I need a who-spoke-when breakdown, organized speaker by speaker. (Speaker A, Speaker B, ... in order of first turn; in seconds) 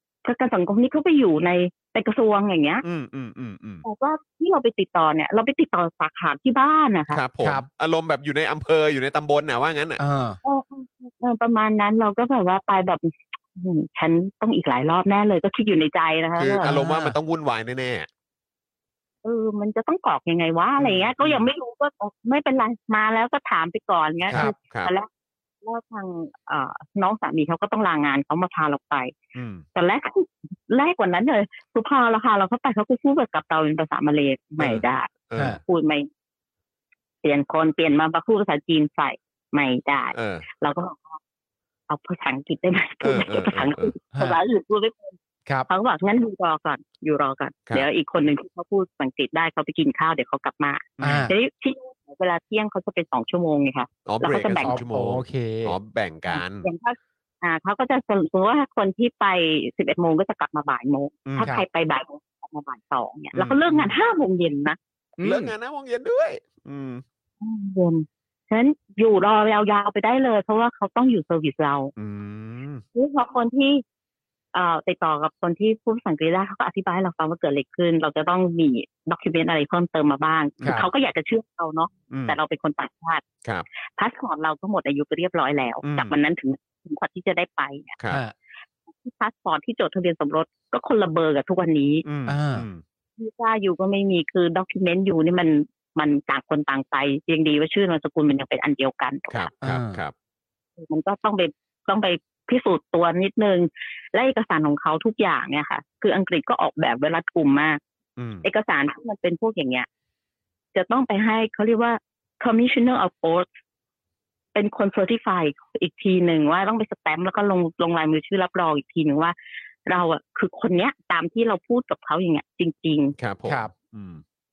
Speaker A: 0.2-2.8, 3.8-7.2, 10.4-16.7, 19.2-25.1, 25.6-29.2, 29.7-36.1, 37.2-41.2, 41.9-45.2, 45.7-54.8, 56.3-64.8, 67.4-71.9, 72.9-73.8, 74.5-83.2, 84.0-88.0, 88.9-92.0, 93.2-99.5, 100.8-107.8, 108.4-109.9, 110.7-113.5, 114.5-119.3, 119.9-123.1
Speaker B: 2.8-3.8, 7.1-10.0, 16.4-18.1, 20.8-21.5, 24.3-24.9, 29.4-29.7, 34.6-35.6, 40.1-40.5, 43.0-43.9, 51.0-51.3, 54.0-56.7, 61.3-61.5, 63.3-64.0, 65.2-67.0, 72.0-72.8, 82.1-82.4, 85.8-86.1, 92.0-92.8, 99.3-100.1, 108.2-108.5, 123.2-124.2
Speaker C: 7.4-7.7, 10.0-10.4, 16.6-17.2, 44.1-44.4, 51.0-51.3, 54.6-55.8, 65.2-65.5, 80.6-80.9, 92.3-92.7, 99.6-100.0, 123.5-123.7